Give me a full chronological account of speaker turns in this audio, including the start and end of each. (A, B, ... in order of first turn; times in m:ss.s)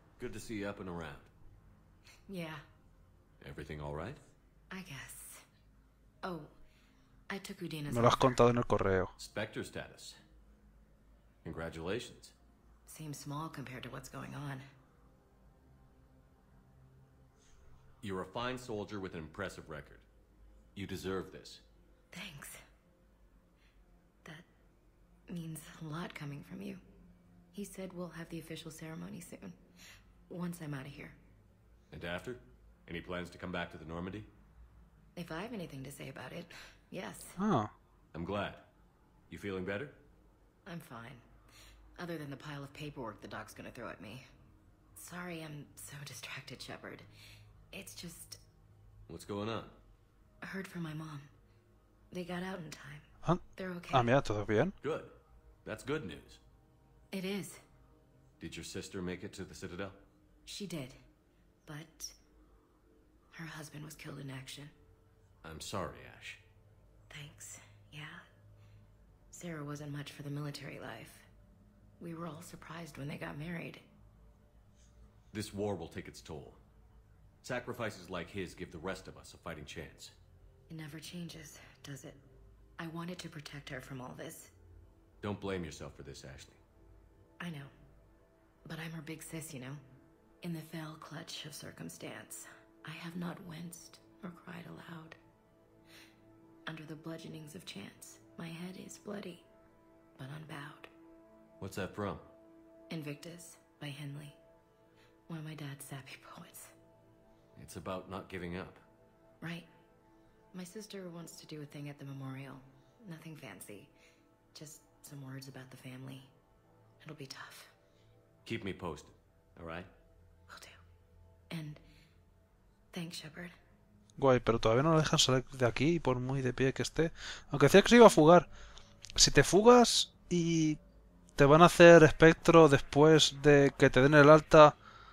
0:00.2-0:01.3 A
0:02.3-0:02.6 B
0:03.4-0:04.2 A
0:04.7-0:05.4 B
0:06.2-0:06.5 B
0:07.3-0:08.4 B
0:07.9-0:09.1 C
0:09.2-0:10.2 A
0:11.4-0:12.3 A
0:12.9-0:14.6 B
0:18.0-0:20.0 A
0:20.8-0:21.6 A
0:22.1-0:22.6 B
0:25.3-0:26.8 B
0:27.5-0:29.6 B
0:30.3-0:31.2 B
0:31.9-0:34.3 A
0:35.2-0:37.4 B
0:37.4-0:37.7 C
0:38.1-0:38.7 A
0:39.3-0:40.0 A
0:40.7-0:41.3 B
0:42.0-0:44.3 B
0:45.0-0:47.1 B
0:47.7-0:48.4 B
0:49.1-0:49.8 A
0:50.4-0:51.3 B
0:52.1-0:54.1 B
0:53.2-0:54.7 C
0:54.8-0:56.4 A
0:57.1-0:57.6 B
0:58.4-1:00.0 A
1:00.5-1:01.0 B
1:01.7-1:02.2 B
1:03.3-1:04.7 B
1:05.4-1:06.4 A
1:07.1-1:08.2 B
1:09.3-1:11.3 B
1:12.0-1:13.8 B
1:15.3-1:16.6 A
1:17.4-1:20.1 A
1:20.7-1:22.2 B
1:22.8-1:24.5 B
1:25.2-1:26.6 A
1:27.4-1:27.7 B
1:28.6-1:29.8 B
1:30.4-1:35.2 B
1:36.7-1:39.5 B
1:40.2-1:40.9 B
1:41.6-1:42.2 A
1:42.9-1:44.4 B
1:45.3-1:46.7 B
1:47.6-1:48.8 A
1:49.4-1:49.7 B
1:50.5-1:53.9 B
1:54.5-1:56.3 B
1:57.0-1:57.7 B
1:58.5-1:59.9 A
2:00.5-2:00.8 B
2:01.5-2:01.8 B
2:02.9-2:03.5 B
2:04.2-2:08.5 C
2:09.2-2:10.8 C
2:11.4-2:14.8 C